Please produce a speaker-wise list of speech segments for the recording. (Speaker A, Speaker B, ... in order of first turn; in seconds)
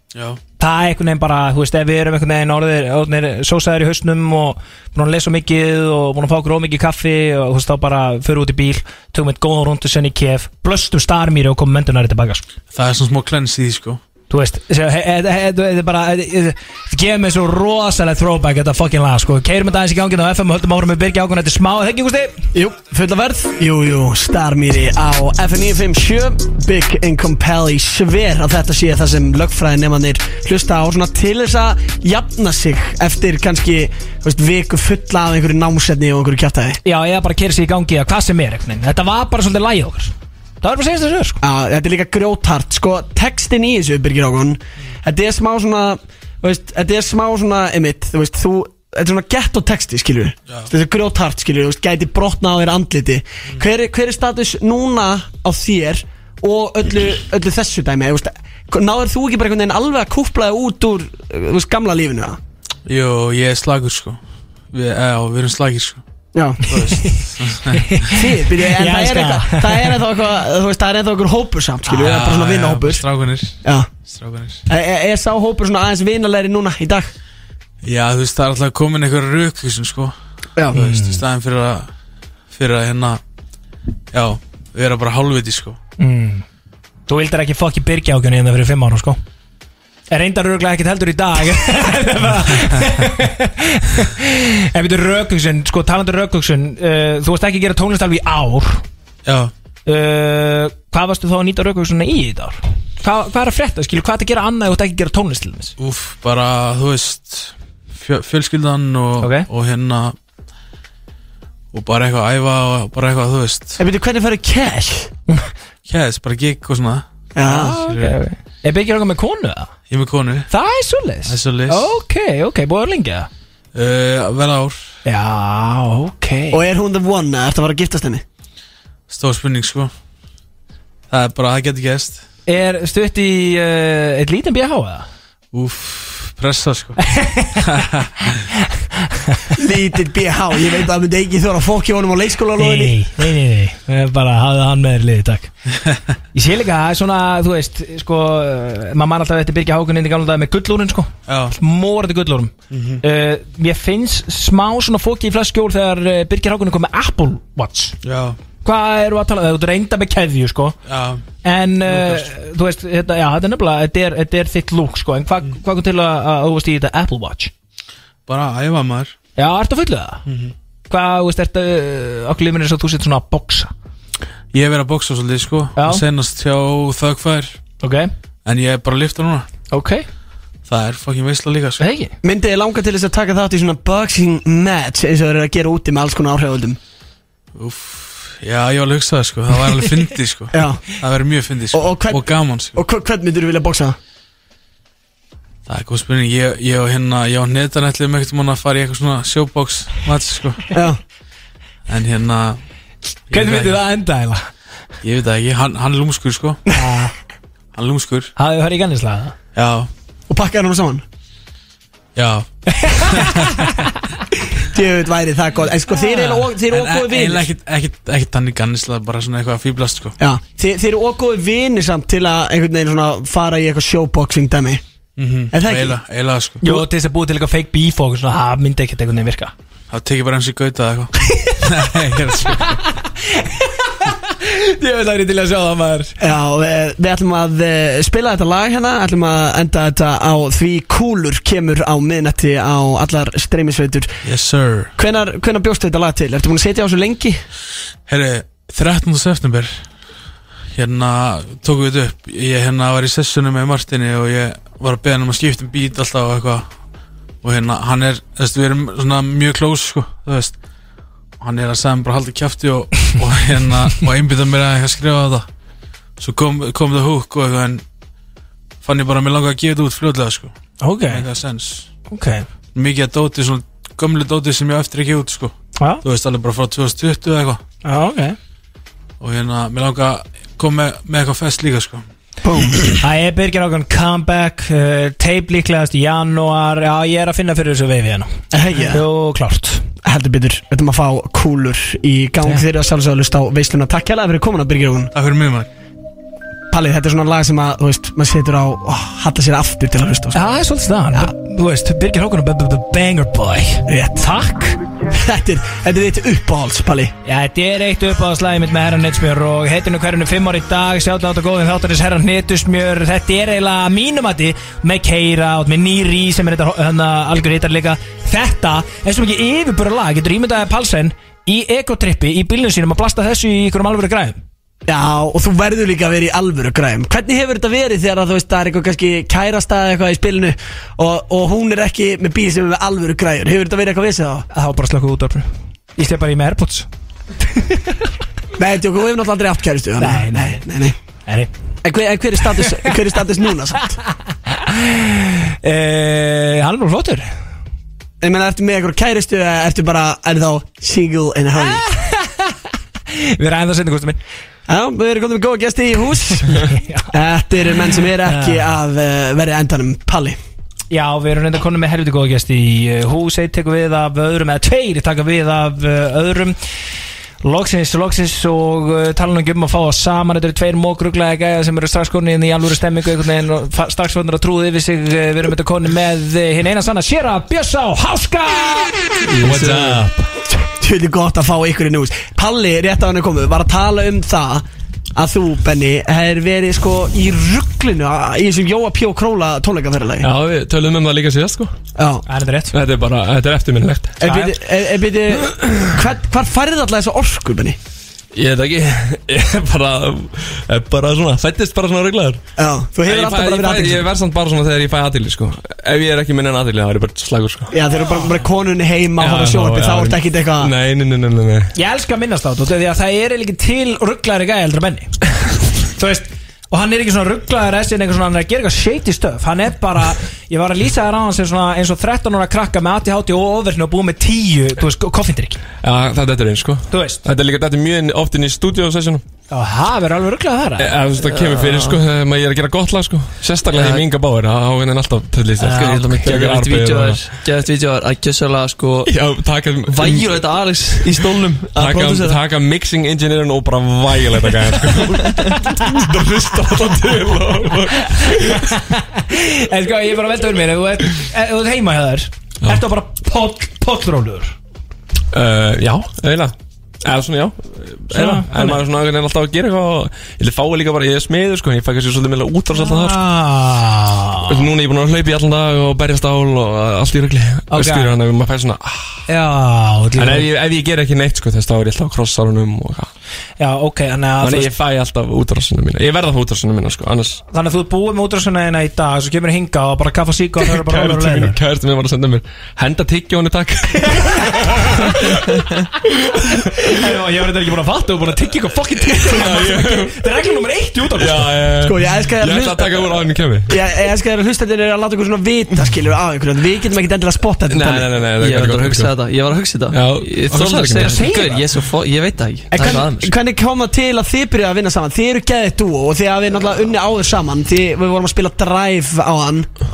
Speaker A: 0.1-0.4, 12.7-14.0, 62.9-66.0, 66.6-68.1, 71.9-74.6, 77.8-80.1, 80.7-81.9, 82.5-83.2, 84.1-85.8, 99.3-99.5, 105.8-110.2, 111.7-113.8, 115.9-118.2, 119.9-120.5, 121.2-121.9, 123.7-124.8, 129.1-129.9, 131.1-132.2, 135.5-138.4, 151.3-151.6, 152.7-153.0, 158.0-158.4, 160.9-161.2, 161.8-162.3, 168.3-169.1, 170.3-170.5, 174.5-177.6, 178.4-179.5, 180.7-181.8, 187.6-192.8, 195.7-200.8, 201.9-202.6, 203.3-203.8, 205.0-206.6, 207.7-208.3, 209.6-209.9, 212.2-213.4, 216.1-220.2, 225.2-226.7, 229.9-232.8, 244.2-244.9, 248.1-249.9, 250.7-256.7, 257.4-260.6, 261.4-265.5, 266.2-267.8, 268.8-270.6, 271.1-271.9, 272.7-277.6, 279.2-282.1, 295.1-295.7
Speaker B: 0.6-12.4, 14.3-22.3, 36.8-41.4, 66.8-69.9, 80.8-81.2, 86.0-86.5, 87.1-89.2, 90.1-98.8, 99.9-105.7, 109.2-109.5, 117.5-119.7, 120.5-123.3, 125.0-126.6, 132.5-135.1, 137.2-137.6, 138.9-139.4, 142.6-145.5, 146.3-158.0, 158.6-160.8, 161.4-167.5, 169.4-170.2, 170.9-173.7, 175.8-176.1, 177.8-178.1, 179.7-180.1, 181.8-182.1, 203.3-204.4, 206.8-207.1, 208.4-209.3, 212.7-213.9, 226.6-229.5, 232.5-236.2, 270.8-271.3, 272.1-272.5, 277.8-278.4, 283.0-288.3, 288.9-289.9, 300.4-304.8, 307.2-324.4, 334.5-336.9, 337.5-338.0, 340.0-340.7, 342.6-342.9, 344.5-347.4, 351.6-352.6, 353.1-354.2, 356.7-357.1, 358.1-358.7, 360.9-366.6, 367.4-379.0, 392.3-392.7, 394.2-394.5, 411.8-415.2, 416.0-425.6, 426.9-427.2, 429.5-430.9, 445.5-445.8, 448.2-454.6, 458.1-458.8, 462.8-464.5, 467.7-468.1, 469.3-470.5, 473.6-474.7, 477.5-481.6, 484.2-484.9, 486.9-491.6, 501.0-501.7
Speaker C: 22.5-36.8, 41.4-62.4, 68.1-73.0, 73.6-73.9, 74.7-77.1, 113.8-115.1, 117.3-117.8, 126.5-128.2, 139.6-143.0, 182.2-186.8, 190.5-190.9, 191.7-194.0, 200.7-201.0, 210.3-211.0, 214.7-217.5, 220.2-224.8, 225.5-226.0, 236.2-244.2, 245.0-247.4, 282.4-282.8, 288.5-289.0, 290.0-295.1, 296.7-300.4, 303.9-304.3, 305.1-307.1, 324.9-334.5, 338.6-341.0, 341.8-344.0, 348.2-351.9, 354.7-360.4, 380.5-390.3, 392.0-392.2, 394.2-397.8, 402.6-404.1, 407.7-410.7, 491.8-498.1, 502.7-509.7
Speaker D: 379.3-380.1, 431.2-432.0, 433.7-434.0, 435.6-439.1, 439.9-442.4, 445.2-445.5, 498.4-503.3
Speaker E: 379.4-380.3, 390.2-391.7, 392.7-394.2, 398.3-402.4, 403.1-407.8, 409.2-411.7, 425.8-429.2, 430.8-437.4, 439.1-441.2, 441.8-448.7, 455.3-463.2, 464.5-469.3, 470.2-473.1, 474.4-477.4, 480.6-486.6, 489.2-490.2, 491.2-493.8, 497.7-499.1, 499.9-501.4